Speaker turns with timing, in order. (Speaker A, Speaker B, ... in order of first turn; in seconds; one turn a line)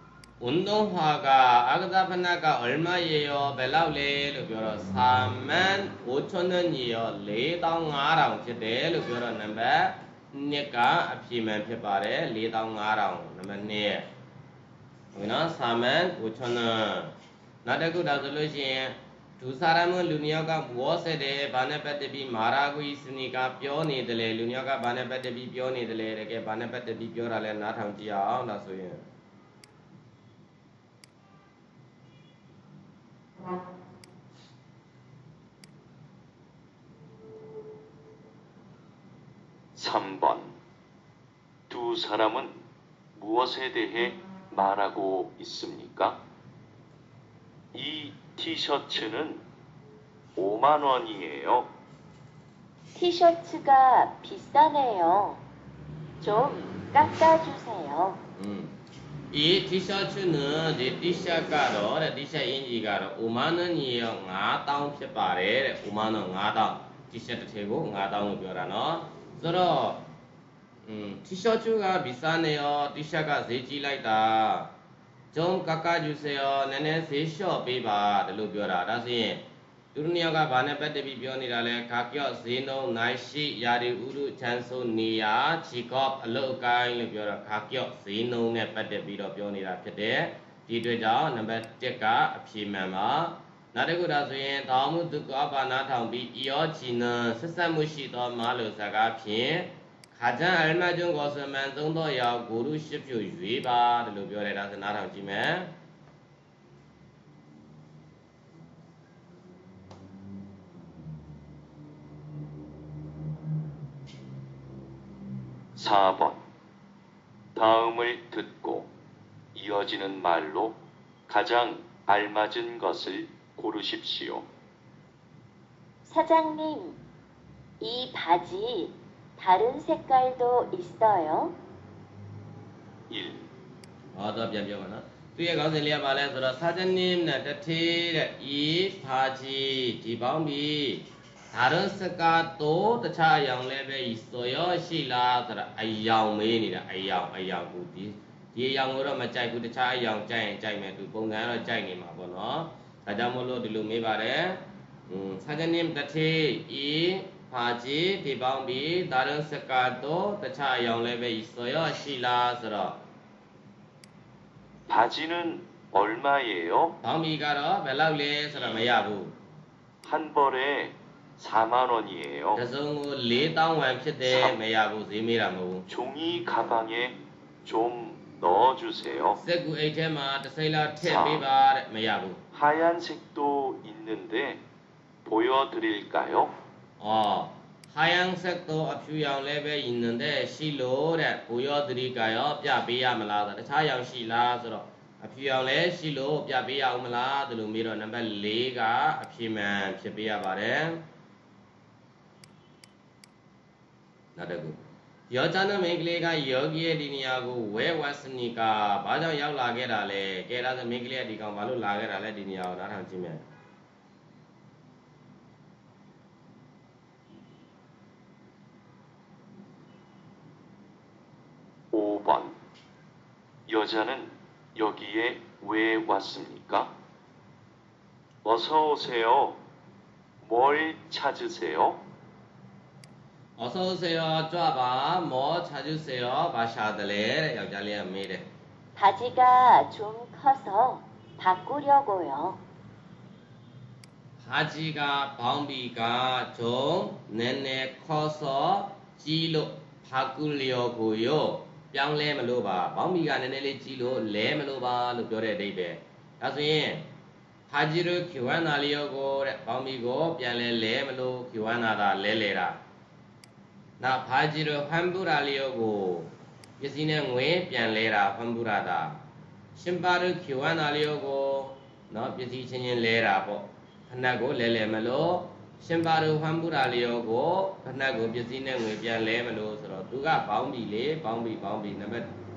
Speaker A: 0.4-14.1
Speaker A: 15.1-17.1
Speaker A: 17.6-29.0
Speaker B: 39.8-40.6
Speaker B: 41.7-42.6
Speaker B: 43.2-46.2
Speaker B: 47.7-49.4
Speaker B: 50.4-51.7
Speaker C: 53.0-55.4
Speaker C: 56.2-58.2
Speaker A: 58.4-58.8
Speaker A: 59.3-70.0
Speaker A: 70.9-74.7
Speaker A: 75.3-105.7
Speaker B: 115.8-116.4
Speaker B: 117.5-118.9
Speaker B: 119.5-120.8
Speaker B: 121.3-124.5
Speaker C: 126.0-127.0
Speaker C: 127.8-131.5
Speaker B: 133.1-133.5
Speaker A: 134.1-163.0
Speaker B: 164.9-167.0
Speaker A: 167.0-169.3
Speaker B: 170.0-172.6
Speaker A: 172.6-175.9
Speaker B: 175.9-179.4
Speaker A: 179.4-182.4
Speaker B: 181.0-181.4
Speaker B: 182.5-184.6
Speaker B: 185.2-186.5
Speaker A: 187.0-201.0
Speaker A: 204.4-204.8
Speaker A: 205.3-213.4
Speaker B: 221.9-222.6
Speaker B: 223.7-226.9
Speaker B: 228.4-229.6
Speaker B: 230.4-232.0
Speaker A: 233.6-238.5
Speaker C: 239.0-242.6
Speaker A: 244.4-257.1
Speaker A: 257.7-262.8
Speaker A: 264.0-269.2
Speaker A: 269.7-282.3